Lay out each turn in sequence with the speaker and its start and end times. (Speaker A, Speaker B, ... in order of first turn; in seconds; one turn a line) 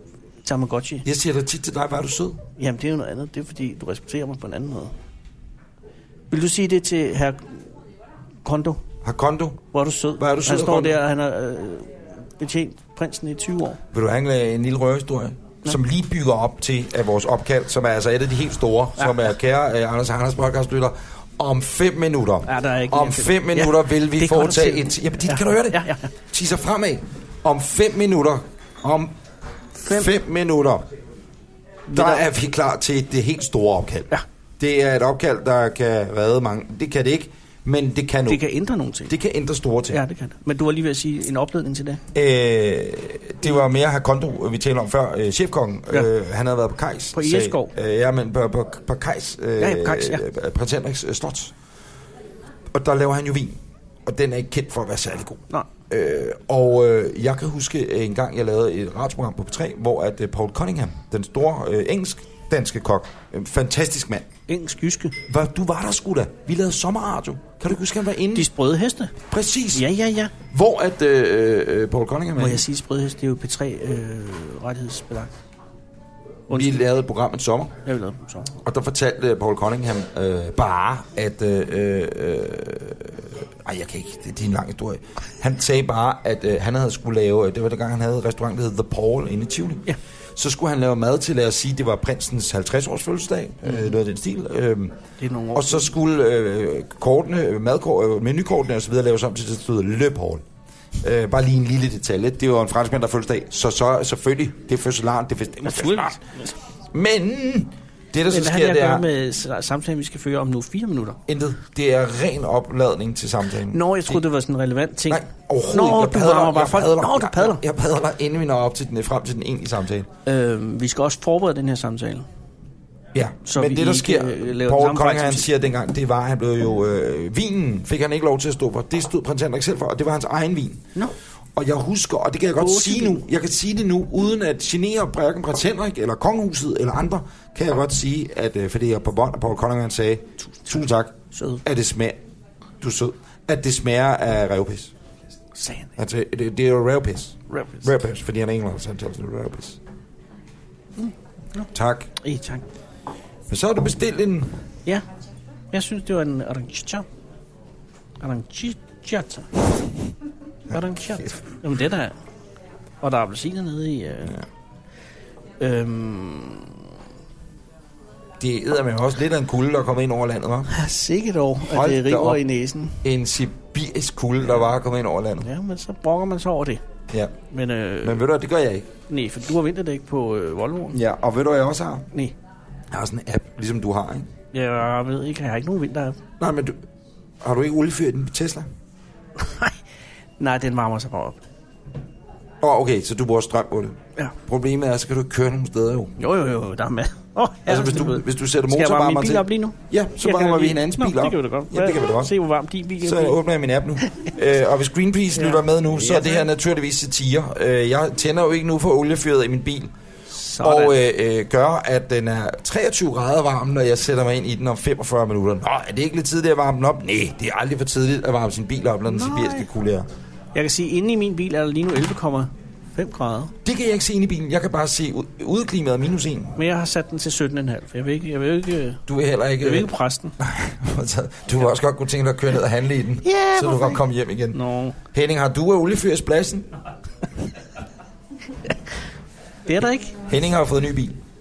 Speaker A: 0.4-1.1
Speaker B: 1.0-2.4
Speaker A: 2.6-4.9
Speaker A: 6.3-7.6
Speaker A: 8.4-8.8
Speaker B: 9.0-9.6
Speaker A: 9.7-13.8
Speaker B: 10.2-11.0
Speaker B: 13.9-29.1
Speaker A: 22.4-26.1
Speaker A: 29.8-30.1
Speaker B: 29.9-30.9
Speaker A: 31.9-32.2
Speaker B: 31.9-38.4
Speaker A: 38.3-39.1
Speaker B: 39.1-40.0
Speaker A: 39.9-42.0
Speaker B: 42.1-51.5
Speaker A: 47.1-47.7
Speaker A: 49.6-50.2
Speaker B: 52.7-64.3
Speaker A: 64.5-65.2
Speaker B: 65.3-68.5
Speaker A: 68.3-69.1
Speaker B: 69.3-69.9
Speaker A: 69.7-70.3
Speaker B: 70.5-72.6
Speaker A: 72.3-75.3
Speaker B: 76.5-77.8
Speaker A: 76.5-76.8
Speaker A: 77.8-78.6
Speaker B: 78.6-95.0
Speaker A: 95.2-95.9
Speaker B: 95.5-100.4
Speaker B: 101.0-106.2
Speaker A: 105.6-106.5
Speaker B: 106.9-109.0
Speaker A: 108.3-111.2
Speaker B: 111.3-114.2
Speaker A: 113.7-117.6
Speaker B: 115.1-120.1
Speaker A: 120.2-122.2
Speaker B: 123.1-130.8
Speaker A: 123.4-125.5
Speaker B: 131.6-142.2
Speaker A: 132.6-133.2
Speaker A: 141.3-141.6
Speaker B: 142.8-144.9
Speaker A: 145.6-145.9
Speaker B: 146.0-149.8
Speaker A: 147.5-147.9
Speaker A: 151.0-152.6
Speaker B: 151.7-152.1
Speaker B: 153.5-154.6
Speaker A: 155.7-157.1
Speaker A: 158.2-159.7
Speaker A: 160.7-162.2
Speaker A: 163.0-164.4
Speaker A: 165.6-166.8
Speaker B: 168.4-170.7
Speaker A: 170.7-173.0
Speaker B: 171.6-172.4
Speaker B: 173.0-175.5
Speaker A: 175.4-176.8
Speaker A: 177.5-178.2
Speaker B: 178.0-178.9
Speaker A: 179.1-181.0
Speaker B: 180.9-182.1
Speaker B: 182.9-184.3
Speaker A: 184.5-186.2
Speaker B: 186.4-186.8
Speaker B: 187.4-188.7
Speaker A: 189.4-189.8
Speaker A: 190.4-191.4
Speaker B: 192.6-196.1
Speaker A: 196.2-203.4
Speaker B: 197.7-202.3
Speaker B: 203.0-209.9
Speaker A: 205.3-206.5
Speaker A: 210.3-211.0
Speaker B: 210.6-220.1
Speaker A: 219.1-219.7
Speaker A: 220.5-223.5
Speaker B: 223.6-226.6
Speaker A: 226.6-229.0
Speaker B: 229.1-236.7
Speaker A: 229.6-230.3
Speaker A: 233.2-234.0
Speaker A: 234.5-235.0
Speaker A: 239.7-240.2
Speaker B: 240.3-241.2